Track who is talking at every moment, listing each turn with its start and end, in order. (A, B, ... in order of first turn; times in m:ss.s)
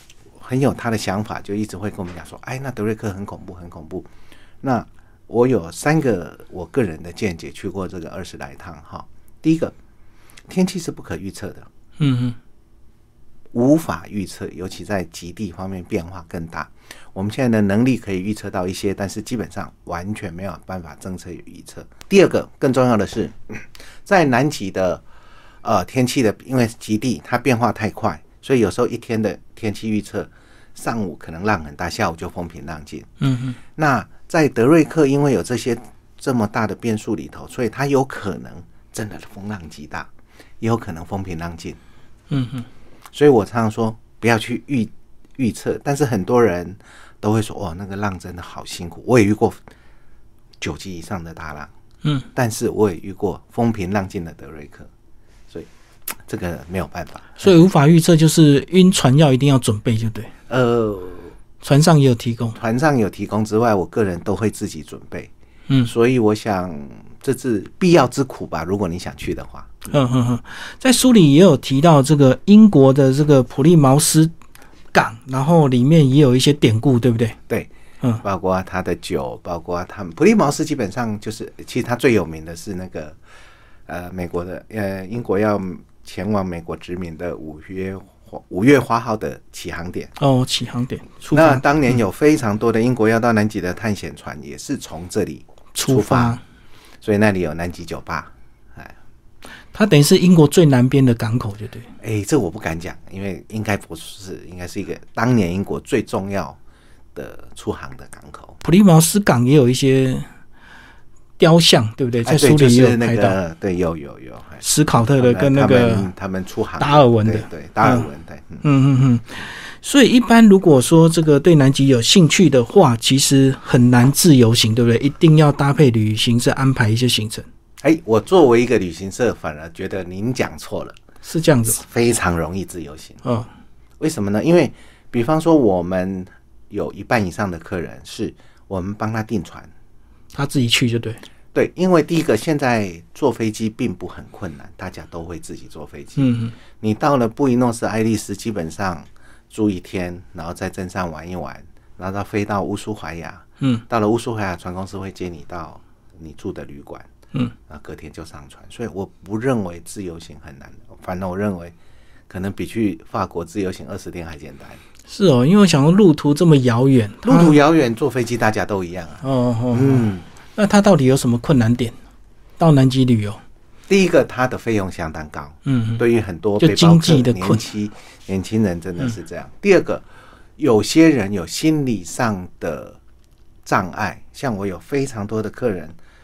0:00.4-0:04.1 A
0:04.6-0:09.8 A
0:10.5-0:11.7 A
0:12.0-0:12.4 B
0:13.5-0:25.0 A
0:25.6-0:33.1 A
0:33.2-0:33.6 B
0:33.8-0:40.1 A
0:40.6-0:41.8 A
0:42.3-0:42.7 B
0:43.1-0:49.6 A
0:50.6-0:51.7 A
0:52.4-0:54.9 A
0:56.2-0:57.6 A
0:57.4-1:00.3 B
1:00.5-1:01.3 A
1:01.6-1:02.6 B
1:02.6-1:05.3 A
1:05.8-1:09.8 A
1:09.9-1:14.3 B
1:14.9-1:17.4 B
1:18.2-1:23.2 A
1:23.9-1:30.1 A
1:30.2-1:31.6 B
1:31.3-1:36.4 A
1:35.7-1:36.4 B
1:37.0-1:38.9 A
1:39.7-1:41.9 B
1:42.0-1:46.6 A
1:47.2-1:48.6 A
1:48.6-1:50.3 B
1:51.4-1:53.4 B
1:52.2-1:54.6 A
1:54.6-1:56.1 B
1:55.2-1:58.6 A
1:56.8-1:58.1 B
1:58.6-2:07.5 B
2:07.8-2:11.0 A
2:11.2-2:11.8 B
2:11.7-2:13.2 A
2:13.2-2:13.5 B
2:14.0-2:19.7 A
2:20.3-2:21.2 B
2:21.5-2:26.3 A
2:26.2-2:26.6 B
2:26.8-2:37.1 A
2:37.7-2:41.7 A
2:42.3-2:44.8 A
2:45.1-2:47.6 B
2:47.2-2:50.2 A
2:49.2-2:52.0 B
2:52.6-2:53.4 B
2:53.9-3:00.0 A
2:55.6-2:56.0 B
2:56.6-2:57.6 B
3:00.6-3:03.0 A
3:03.6-3:06.0 A